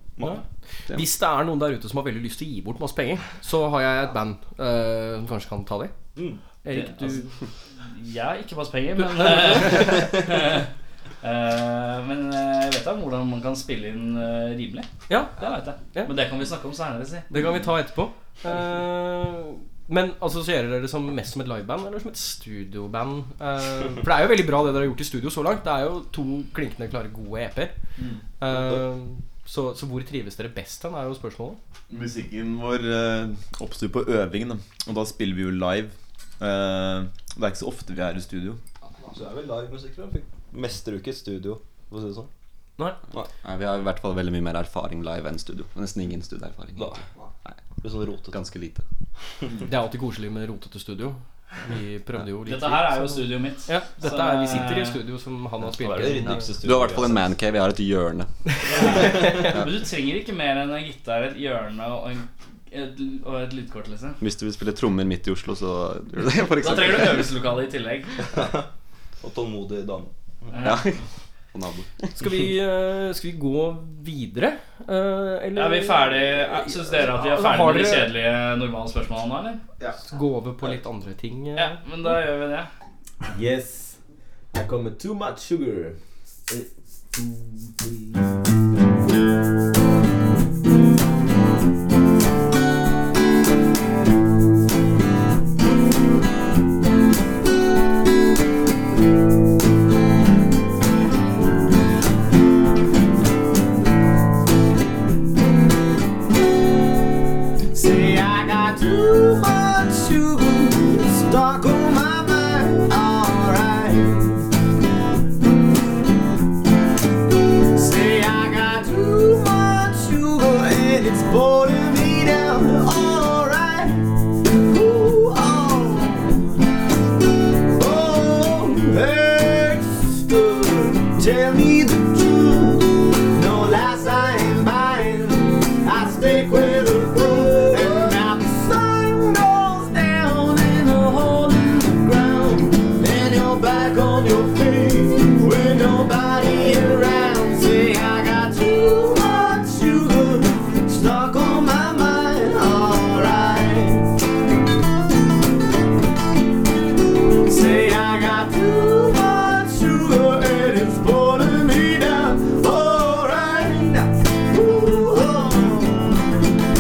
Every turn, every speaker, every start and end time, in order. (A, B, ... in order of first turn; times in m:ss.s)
0:00.2-0:00.4 A
0:00.2-0:05.9 B
0:06.2-0:06.4 A
0:06.6-0:07.3 B
0:07.8-0:10.7 C
0:09.2-0:09.9 B
0:11.2-0:17.3 C
0:15.1-0:15.4 B
0:17.3-0:27.7 B
0:28.0-0:28.2 D
0:28.4-0:31.6 B
0:31.9-0:38.6 D
0:39.0-0:42.3 A
0:43.4-0:47.5 E
0:46.7-0:47.0 A
0:47.8-0:48.4 A
0:48.3-0:48.8 E
0:49.6-0:56.5 B
0:52.4-0:55.0 C
0:55.7-0:57.3 A
0:56.6-0:58.3 E
0:58.6-1:04.2 C
0:58.7-0:59.5 B
1:04.2-1:07.3 E
1:06.6-1:08.2 C
1:08.3-1:08.7 A
1:09.2-1:10.1 A
1:10.5-1:10.9 C
1:10.6-1:11.0 E
1:11.5-1:12.1 E
1:12.2-1:18.1 B
1:15.5-1:19.6 C
1:20.0-1:22.1 B
1:21.6-1:22.7 C
1:23.2-1:24.0 D
1:24.5-1:26.0 D
1:26.5-1:28.1 D
1:47.7-1:54.4 F
1:57.7-2:06.6 F
2:07.7-2:34.1 F
2:37.4-2:46.2 F